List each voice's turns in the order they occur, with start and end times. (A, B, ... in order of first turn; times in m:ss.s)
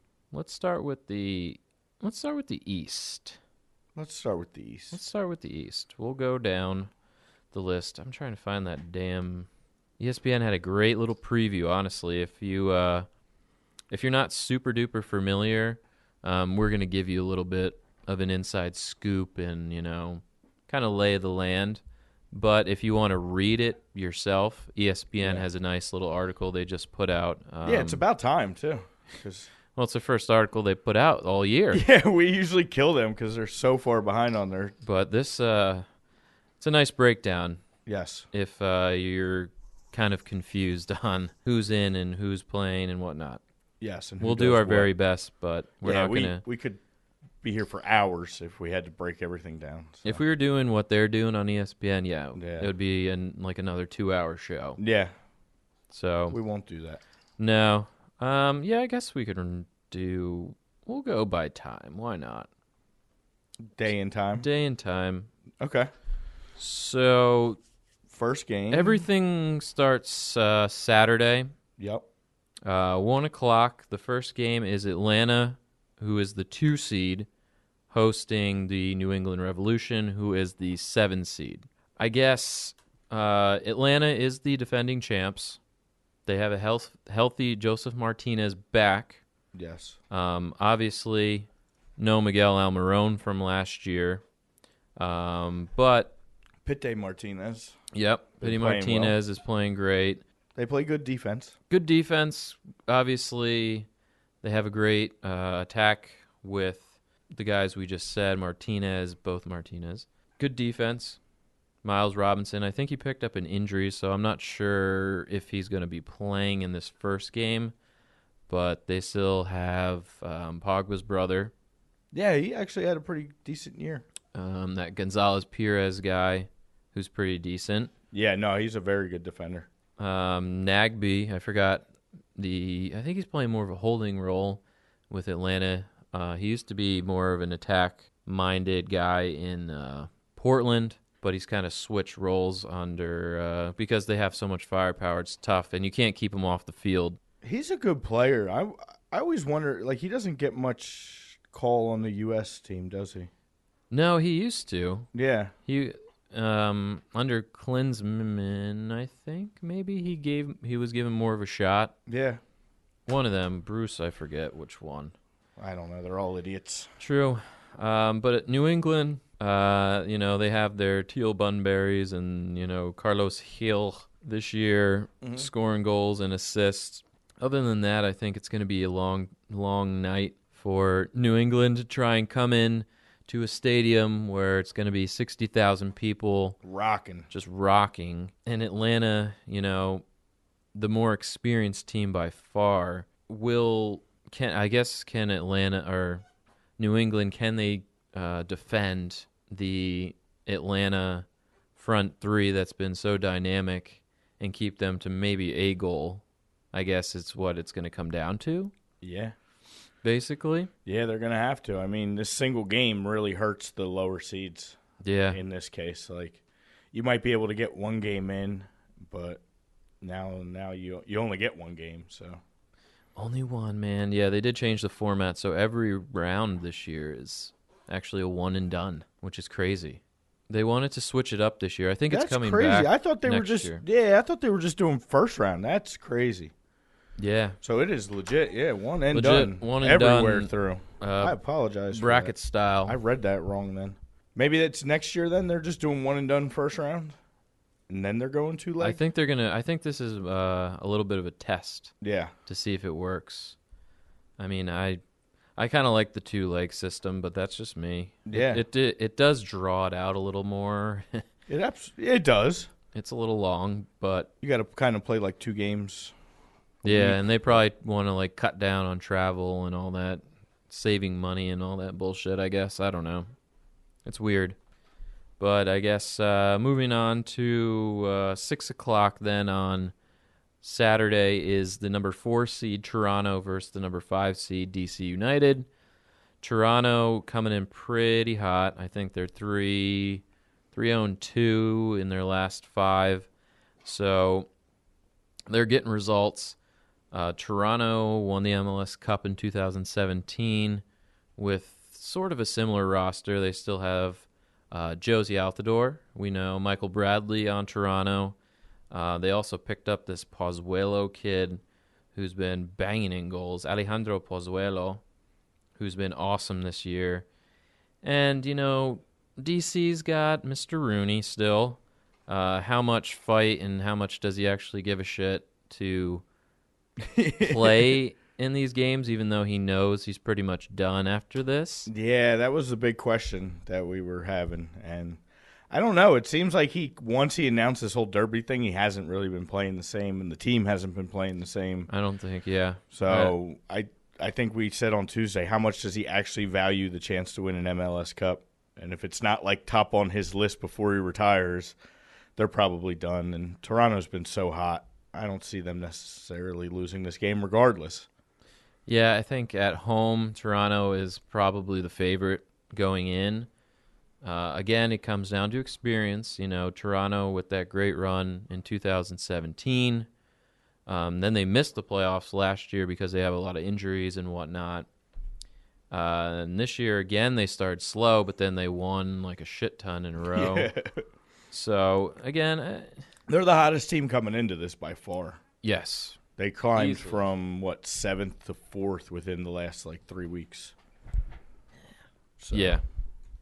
0:00.3-0:03.4 A
0:04.0-0:05.0 B
0:04.9-0:06.9 A
0:07.5-0:09.5 A
0:10.0-0:13.1 A
0:13.9-0:21.8 A
0:22.3-0:28.0 A
0:27.6-0:29.5 B
0:29.8-0:31.8 A
0:31.7-0:34.8 B
0:34.8-0:35.9 A
0:36.6-0:37.6 A
0:37.9-0:38.3 B
0:38.3-0:43.4 A
0:43.8-0:44.9 B
0:44.2-0:46.4 A
0:45.8-0:46.8 B
0:47.4-0:50.2 B
0:50.0-0:54.8 A
0:52.4-0:52.7 B
0:54.8-0:55.1 B
0:55.9-0:56.4 A
0:56.3-0:57.0 B
0:57.4-1:02.5 A
1:03.7-1:04.5 B
1:04.4-1:05.3 A
1:05.6-1:05.9 B
1:06.6-1:07.6 A
1:08.1-1:09.0 B
1:08.7-1:11.5 A
1:11.8-1:12.1 B
1:12.6-1:17.3 A
1:17.9-1:25.6 A
1:26.3-1:29.2 A
1:29.5-1:30.0 B
1:30.1-1:34.2 A
1:35.0-1:36.2 A
1:36.6-1:37.8 B
1:37.9-1:40.2 A
1:38.4-1:39.2 B
1:40.6-1:41.6 B
1:41.7-1:43.9 A
1:44.4-1:51.2 A
1:51.8-1:57.7 A
1:58.5-2:01.5 A
2:02.1-2:04.0 B
2:04.3-2:07.9 A
2:08.1-2:09.7 B
2:10.0-2:27.2 A
2:27.4-2:33.3 B
2:33.9-2:35.1 A
2:35.1-2:35.5 B
2:35.7-2:41.9 A
2:42.1-2:42.4 B
2:43.1-2:45.1 A
2:45.6-2:46.9 B
2:47.0-3:06.6 A
2:55.2-2:55.5 B
3:06.6-3:07.3 B
3:07.3-3:10.0 A
3:10.7-3:16.2 A
3:16.8-3:28.7 A
3:29.0-3:29.4 B
3:30.0-3:30.7 A
3:30.8-3:34.8 B
3:35.0-3:35.4 A
3:35.3-3:36.4 B
3:36.9-3:39.4 B
3:40.0-3:42.4 B
3:43.2-3:53.8 A
3:52.1-3:56.5 B
3:57.2-3:57.6 A
3:57.6-4:02.3 B
3:59.1-4:01.4 A
4:01.9-4:03.0 A
4:02.8-4:07.2 B
4:07.9-4:09.0 B
4:08.8-4:11.9 A
4:12.0-4:12.3 B
4:12.5-4:13.6 A
4:14.4-4:15.0 A
4:15.6-4:21.2 A
4:18.3-4:18.6 B
4:21.5-4:22.7 B
4:22.9-4:24.3 A
4:24.4-4:26.1 B
4:26.8-4:27.6 B
4:26.8-4:33.3 A
4:34.0-4:34.6 A
4:35.4-4:39.9 A
4:40.6-4:45.7 A
4:46.4-4:53.3 A
4:53.8-4:54.5 A
4:55.5-4:56.6 A
4:57.1-5:00.8 A
5:01.4-5:08.4 A
5:08.9-5:11.6 A
5:12.1-5:15.0 A
5:15.8-5:17.3 A
5:18.0-5:26.2 A
5:27.0-5:28.0 B
5:27.4-5:31.9 A
5:31.9-5:41.9 B
5:41.9-5:43.3 A
5:42.9-5:51.8 B
5:52.4-5:58.1 B
5:58.9-6:03.5 A
6:04.2-6:10.1 A
6:10.9-6:14.9 A
6:15.9-6:20.7 A
6:20.3-6:21.1 B
6:21.5-6:23.0 A
6:23.3-6:25.4 B
6:25.6-6:26.2 A
6:26.4-6:30.7 B
6:26.8-6:27.2 A
6:32.4-6:32.8 B
6:32.5-6:32.8 A